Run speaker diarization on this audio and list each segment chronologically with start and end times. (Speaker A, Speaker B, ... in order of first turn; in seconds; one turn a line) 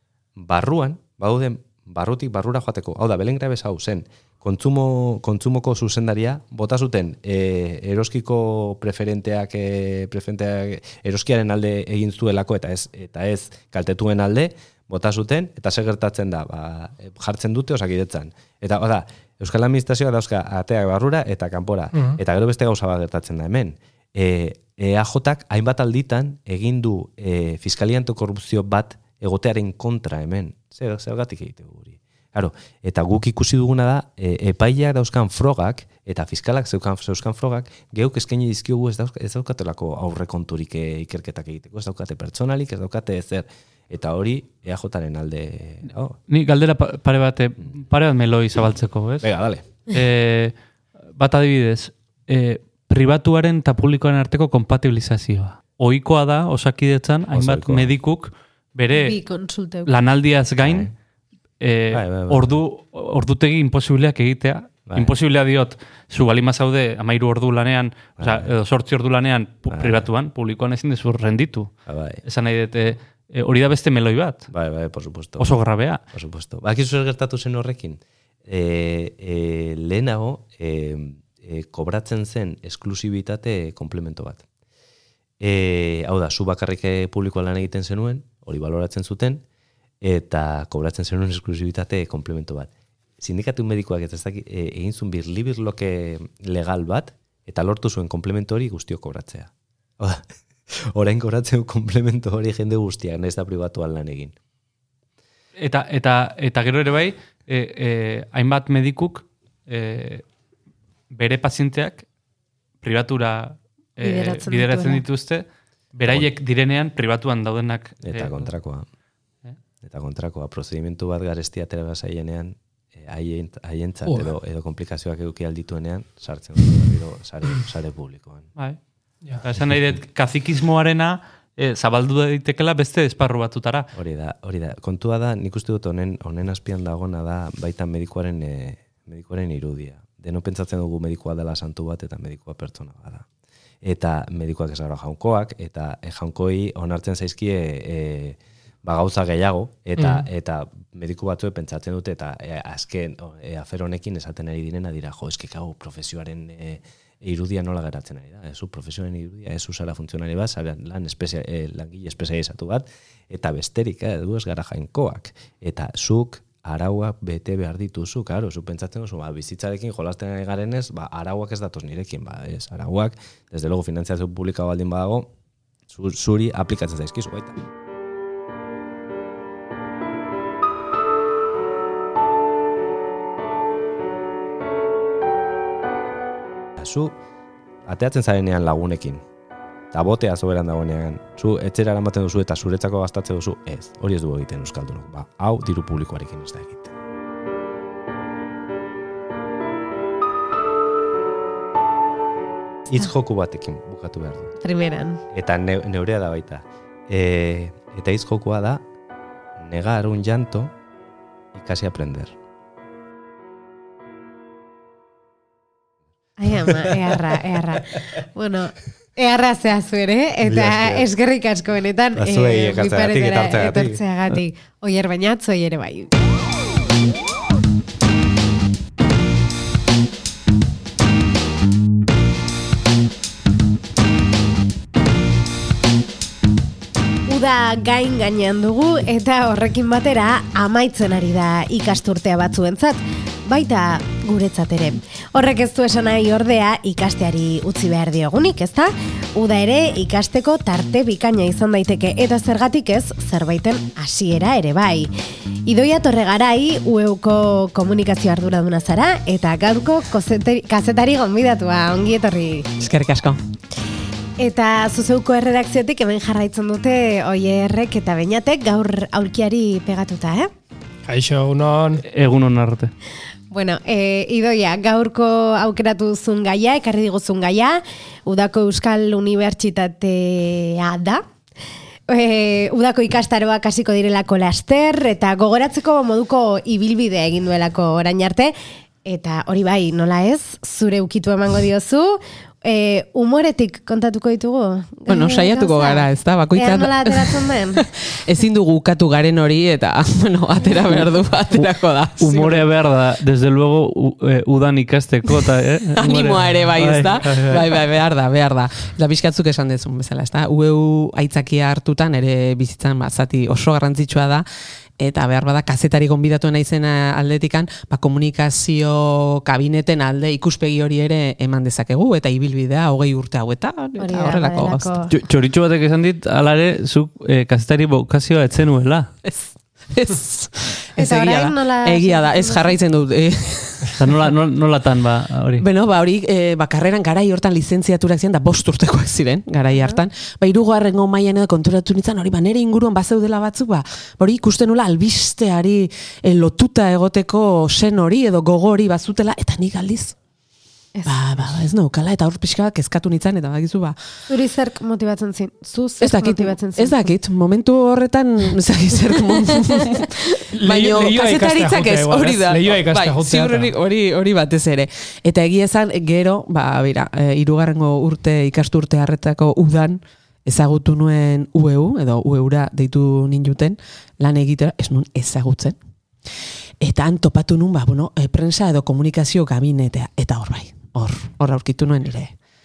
Speaker A: 0.4-46.2
Speaker B: 46.3-49.3
Speaker A: 49.2-49.6
Speaker B: 49.9-50.5
Speaker B: 51.1-59.2
Speaker A: 57.3-57.9
Speaker C: 58.9-59.9
Speaker B: 59.9-60.9
Speaker A: 60.6-60.9
Speaker B: 61.6-71.7
Speaker A: 61.9-62.6
Speaker A: 64.9-65.1
Speaker A: 68.2-68.5
Speaker A: 69.7-70.1
Speaker A: 71.9-72.2
Speaker B: 72.2-74.5
Speaker A: 74.5-75.6
Speaker B: 75.4-76.0
Speaker A: 76.1-84.4
Speaker A: 85.4-89.4
Speaker A: 90.0-104.3
Speaker B: 105.6-110.2
Speaker B: 111.1-112.0
Speaker B: 112.8-118.4
Speaker C: 114.0-115.0
Speaker A: 118.0-118.9
Speaker A: 119.8-128.5
Speaker B: 129.4-133.9
Speaker A: 133.9-143.2
Speaker A: 143.8-175.3
Speaker D: 150.0-150.2
Speaker A: 175.9-177.6
Speaker A: 186.8-187.2
Speaker A: 187.9-189.2
Speaker A: 189.9-196.9
Speaker A: 202.9-204.5
Speaker C: 204.6-205.2
Speaker A: 205.3-208.8
Speaker A: 209.6-210.7
Speaker A: 211.5-212.3
Speaker C: 216.4-226.1
Speaker A: 220.4-221.1
Speaker A: 222.1-224.0
Speaker C: 237.3-255.1
Speaker C: 255.7-262.7
Speaker E: 262.8-263.4
Speaker C: 264.4-270.5
Speaker D: 271.1-272.0
Speaker B: 272.1-272.9
Speaker C: 273.5-281.2
Speaker C: 282.1-288.5
Speaker C: 289.1-297.8
Speaker E: 295.1-302.7
Speaker B: 301.5-307.8
Speaker E: 305.9-314.4
Speaker E: 315.0-324.9
Speaker C: 324.0-325.1
Speaker B: 325.1-329.1
Speaker E: 329.2-334.1
Speaker C: 331.0-332.7
Speaker B: 334.0-335.6
Speaker E: 335.6-350.1
Speaker E: 351.1-354.0
Speaker C: 354.3-357.0
Speaker E: 356.0-375.8
Speaker D: 360.6-363.7
Speaker E: 376.8-382.3